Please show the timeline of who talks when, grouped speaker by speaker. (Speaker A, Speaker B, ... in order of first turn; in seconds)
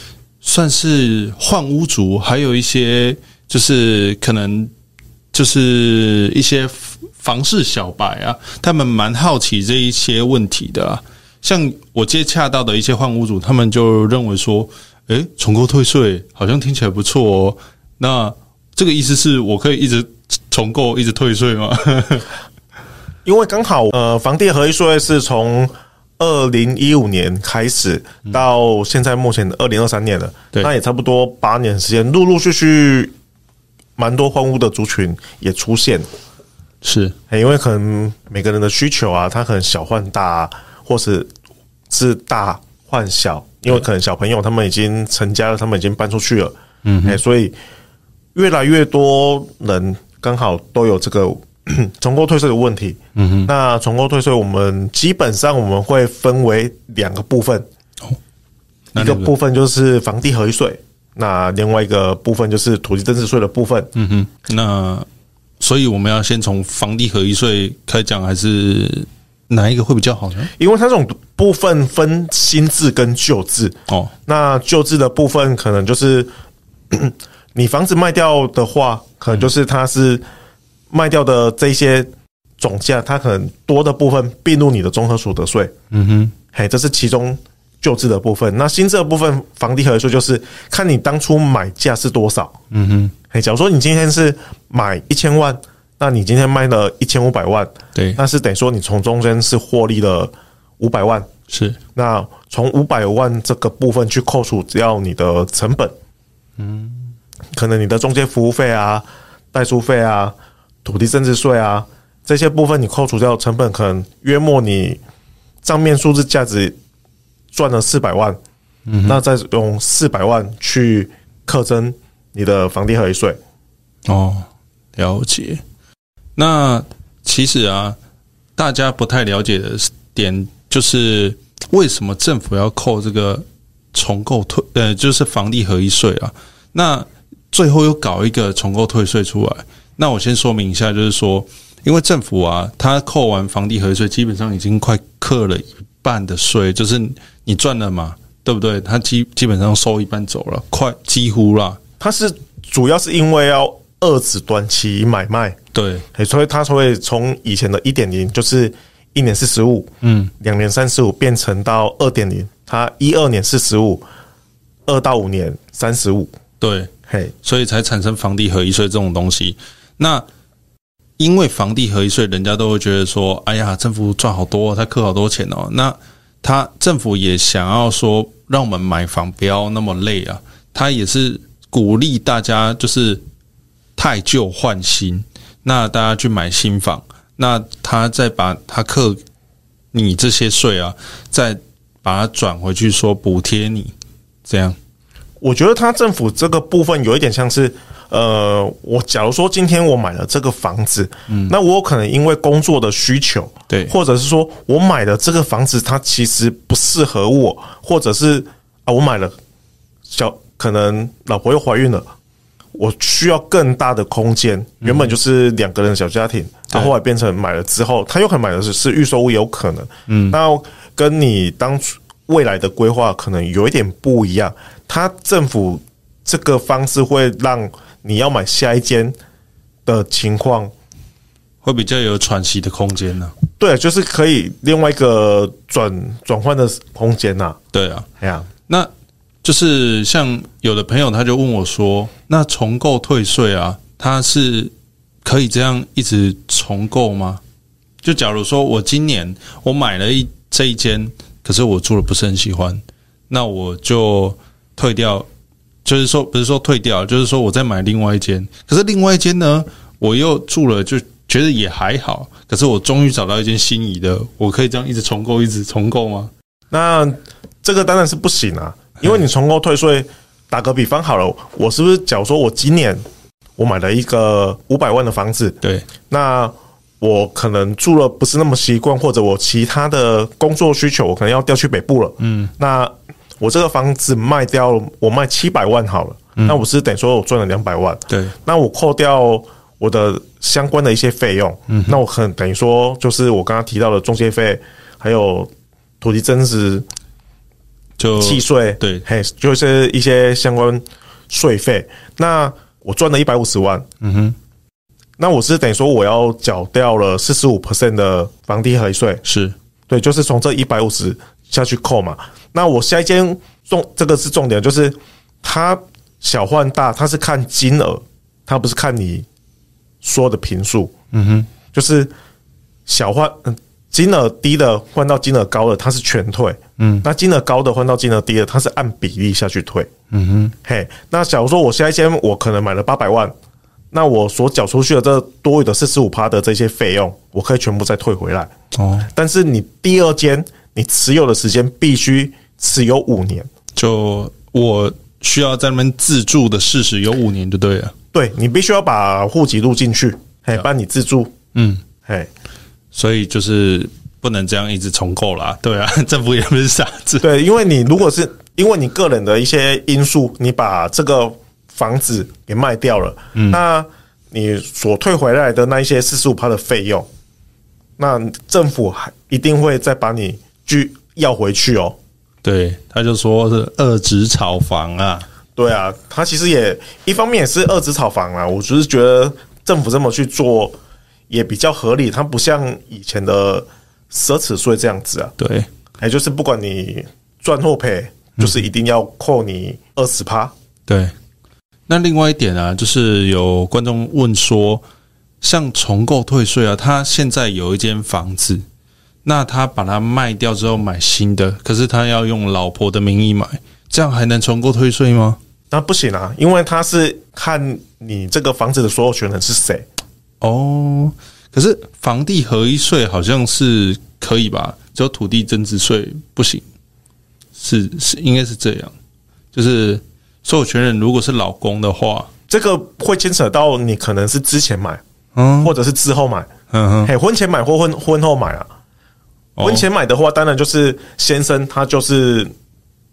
Speaker A: 0.4-4.7, 5.3-22.3, 36.8-37.1, 46.8-47.2, 53.1-53.5, 58.9-59.3, 63.9-65.0, 65.6-70.5, 85.9-86.3, 92.7-93.1, 101.5-101.8, 106.6-107.1, 118.9-119.2, 124.0-125.6, 126.3-128.0, 128.6-151.8, 155.7-156.1, 160.0-160.3, 166.6-166.9, 167.4-170.2, 171.2-183.2, 184.0-189.2, 189.9-193.9, 194.4-194.8, 201.3-201.5, 203.7-203.9, 214.8-215.1, 220.1-220.4, 231.6-233.3, 237.7-238.1, 239.4-244.7, 245.2-247.4, 248.0-255.3, 255.8-266.3, 282.2-282.5, 291.7-292.0, 298.0-299.0, 304.0-304.3, 309.2-309.5, 321.1-321.5, 326.8-327.0, 330.1-330.5, 338.7-339.1, 343.7-347.9, 351.5-351.8, 352.9-357.2, 363.3-363.6, 372.4-375.3, 385.4-385.7, 390.9-391.1, 391.9-394.8, 395.4-398.6, 399.2-405.4, 410.4-416.6, 417.5-418.9, 419.5-422.3, 425.4-425.7, 426.7-427.1, 429.6-429.9
Speaker B: 23.2-33.1, 34.0-36.0, 37.3-41.3, 41.9-47.5, 48.3-57.6, 59.0-63.9, 70.5-76.3, 76.9-80.2, 80.9-85.7, 86.5-92.5, 93.3-101.3, 101.9-105.9, 107.5-115.0, 115.6-116.7, 117.5-118.4, 119.0-123.4, 152.0-155.6, 156.1-159.9, 160.4-164.0, 164.9-166.3, 167.1-167.3, 195.4-209.3, 210.1-212.0, 212.7-229.1, 229.8-230.7, 233.6-237.6, 238.2-238.5, 266.7-273.0, 273.6-296.8, 298.2-303.9, 305.2-309.2, 309.9-319.2, 320.0-320.9, 321.7-322.1, 322.9-329.9, 330.6-333.3, 333.9-338.5, 339.1-343.5, 348.1-351.3, 357.2-367.1, 368.0-372.0, 375.6-380.8, 381.3-385.3, 386.0-390.5, 405.7-409.8, 422.5-425.0, 425.6-426.5, 427.0-428.7, 429.6-432.5